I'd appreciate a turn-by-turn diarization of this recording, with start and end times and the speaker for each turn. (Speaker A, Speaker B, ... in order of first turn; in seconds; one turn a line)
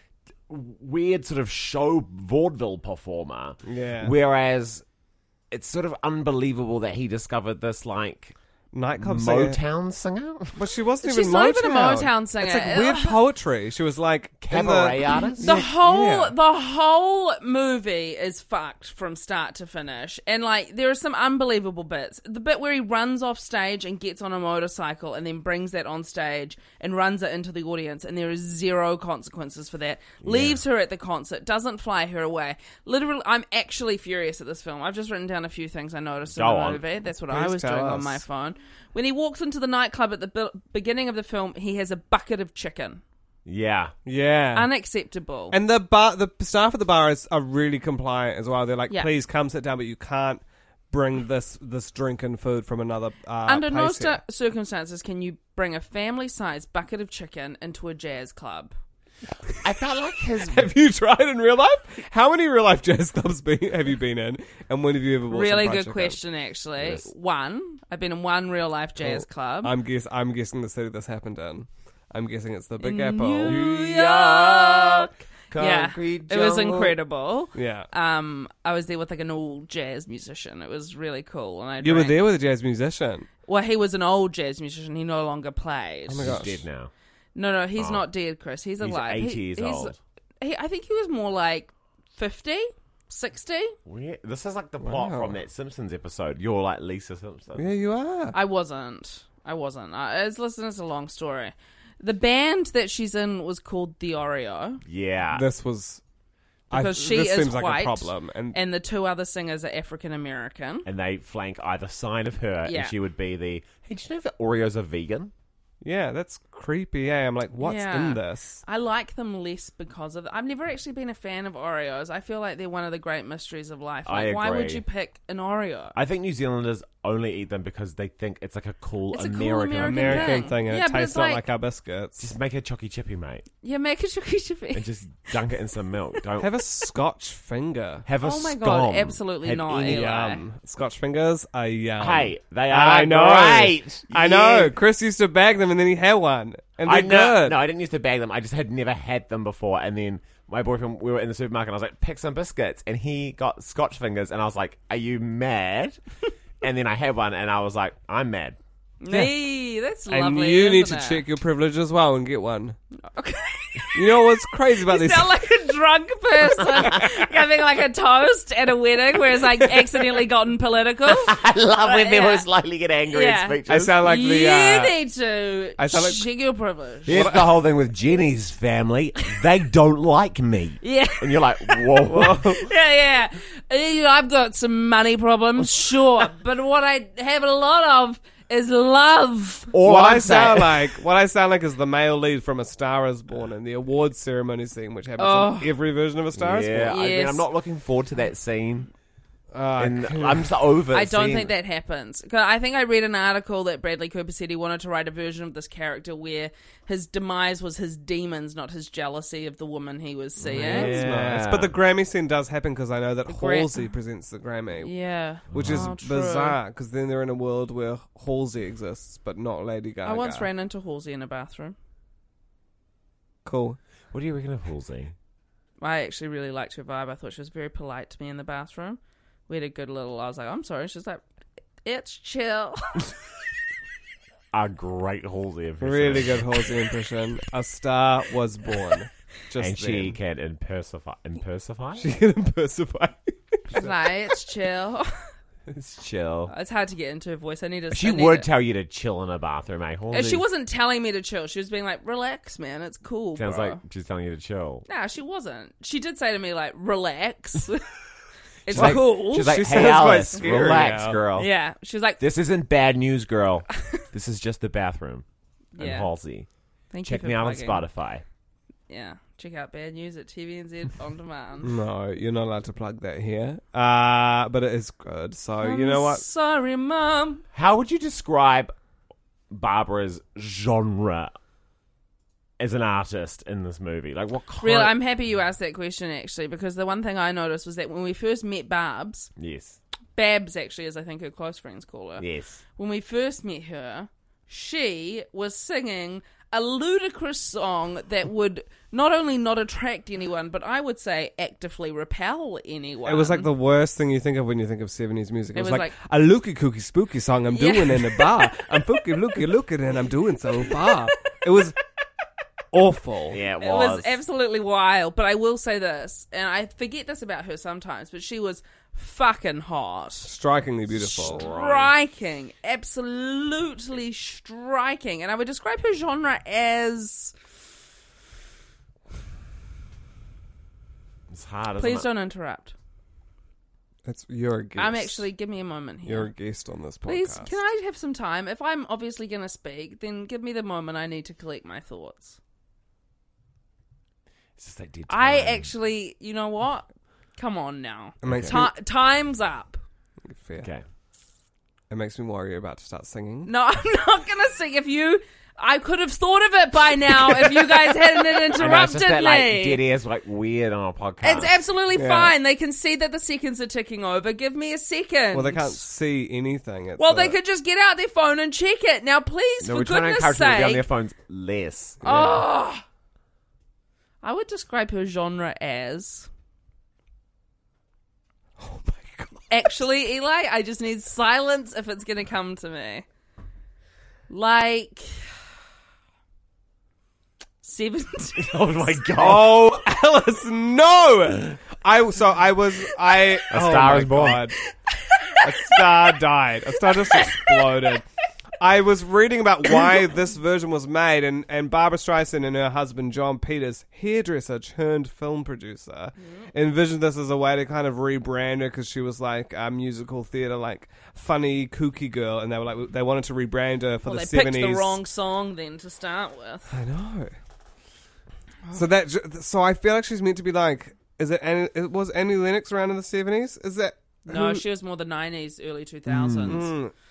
Speaker A: 0.5-4.8
Speaker B: 3.6-4.1
Speaker A: 5.5-8.3
Speaker B: 8.7-9.6
Speaker A: 9.0-10.6
Speaker B: 10.6-16.4
Speaker C: 11.0-13.2
Speaker A: 14.4-15.6
Speaker C: 15.1-43.0
Speaker A: 30.2-30.6
Speaker A: 36.3-36.8
Speaker B: 37.3-38.2
Speaker A: 43.5-43.9
Speaker B: 44.0-44.7
Speaker C: 44.5-45.5
Speaker B: 45.5-54.2
Speaker C: 53.5-58.7
Speaker A: 59.6-60.7
Speaker B: 60.4-66.2
Speaker C: 65.3-69.7
Speaker A: 66.8-67.1
Speaker B: 69.0-73.6
Speaker C: 72.8-82.2
Speaker A: 73.4-76.9
Speaker B: 77.5-77.9
Speaker B: 81.8-83.3
Speaker C: 83.5-86.4
Speaker B: 86.1-86.6
Speaker A: 86.2-86.9
Speaker C: 87.3-93.8
Speaker A: 87.8-88.1
Speaker A: 88.8-90.0
Speaker A: 93.8-97.6
Speaker B: 94.8-95.4
Speaker B: 97.5-98.3
Speaker C: 98.3-104.8
Speaker A: 104.8-105.4
Speaker B: 105.3-106.0
Speaker B: 106.7-108.6
Speaker C: 106.7-110.9
Speaker A: 110.8-115.3
Speaker C: 112.6-112.9
Speaker B: 115.8-118.6
Speaker C: 117.6-126.0
Speaker A: 124.0-124.8
Speaker A: 125.9-130.4
Speaker C: 129.1-131.4
Speaker B: 129.8-132.3
Speaker A: 132.2-133.4
Speaker C: 133.6-134.9
Speaker A: 134.7-136.6
Speaker B: 136.4-138.1
Speaker A: 138.1-140.0
Speaker C: 138.2-140.4
Speaker B: 139.8-147.6
Speaker A: 142.0-144.7
Speaker A: 146.8-156.0
Speaker A: 156.6-158.6
Speaker C: 159.0-161.2
Speaker B: 160.1-162.8
Speaker C: 163.0-164.3
Speaker B: 163.9-165.4
Speaker C: 164.8-172.4
Speaker A: 171.1-174.0
Speaker C: 173.1-177.3
Speaker B: 173.7-174.9
Speaker B: 175.8-176.2
Speaker A: 177.1-182.6
Speaker B: 177.1-177.5
Speaker C: 180.8-189.7
Speaker B: 182.1-182.4
Speaker A: 189.7-190.9
Speaker B: 189.8-196.9
Speaker C: 195.2-195.7
Speaker A: 196.3-198.9
Speaker C: 196.8-197.4
Speaker B: 199.5-200.5
Speaker A: 199.8-201.5
Speaker C: 200.9-211.0
Speaker A: 210.4-211.7
Speaker B: 210.5-214.9
Speaker C: 213.3-213.8
Speaker C: 214.8-216.6
Speaker A: 215.5-215.9
Speaker B: 215.5-220.5
Speaker C: 220.0-221.8
Speaker B: 223.4-223.8
Speaker A: 224.1-225.1
Speaker C: 225.8-231.2
Speaker C: 231.8-233.0
Speaker A: 234.5-236.7
Speaker B: 235.8-240.2
Speaker A: 239.6-242.1
Speaker B: 242.0-243.9
Speaker C: 243.7-245.3
Speaker A: 245.7-246.5
Speaker C: 246.5-248.5
Speaker A: 247.9-250.4
Speaker C: 250.1-253.8
Speaker A: 253.3-254.8
Speaker C: 254.9-257.9
Speaker C: 258.6-259.6
Speaker A: 258.7-261.5
Speaker B: 258.7-261.2
Speaker C: 260.4-260.7
Speaker C: 261.3-262.2
Speaker A: 262.2-265.2
Speaker C: 265.7-266.1
Speaker A: 265.8-266.5
Speaker C: 266.9-267.8
Speaker A: 267.0-268.2
Speaker C: 268.9-271.7
Speaker B: 271.6-276.2
Speaker C: 275.6-277.4
Speaker A: 277.5-278.7
Speaker A: 279.5-281.3
Speaker A: 282.6-284.9
Speaker C: 284.6-289.3
Speaker A: 289.4-289.8
Speaker C: 290.1-303.5
Speaker A: 292.2-292.6
Speaker B: 303.1-311.8
Speaker C: 305.5-305.9
Speaker C: 307.5-308.7
Speaker B: 312.7-313.4
Speaker A: 313.3-314.1
Speaker C: 313.6-320.3
Speaker B: 320.2-321.4
Speaker C: 320.9-327.3
Speaker A: 321.1-321.9
Speaker A: 331.3-332.1
Speaker C: 331.8-332.7
Speaker B: 334.0-335.2
Speaker C: 334.8-336.3
Speaker B: 336.0-337.5
Speaker C: 337.1-342.4
Speaker A: 344.6-345.7
Speaker C: 345.1-349.8
Speaker B: 348.2-348.7
Speaker A: 348.2-348.6
Speaker B: 350.3-350.7
Speaker B: 351.9-353.5
Speaker C: 353.4-359.8
Speaker A: 358.6-361.5
Speaker C: 361.2-365.9
Speaker B: 361.9-362.3
Speaker B: 365.3-367.4
Speaker C: 367.0-370.9
Speaker A: 369.6-372.0
Speaker B: 372.0-372.4
Speaker C: 372.0-372.8
Speaker C: 374.2-376.3
Speaker B: 378.6-379.5
Speaker C: 379.5-383.0
Speaker C: 384.3-385.2
Speaker C: 387.6-389.0
Speaker A: 388.4-389.6
Speaker B: 389.1-394.6
Speaker A: 393.5-394.5
Speaker C: 395.1-395.9
Speaker B: 395.4-398.0
Speaker C: 396.9-397.8
Speaker B: 398.6-415.0
Speaker C: 406.2-406.5
Speaker C: 414.0-416.7
Speaker B: 416.7-417.3
Speaker B: 418.7-424.6
Speaker C: 424.3-426.7
Speaker A: 426.1-426.6
Speaker B: 426.4-426.9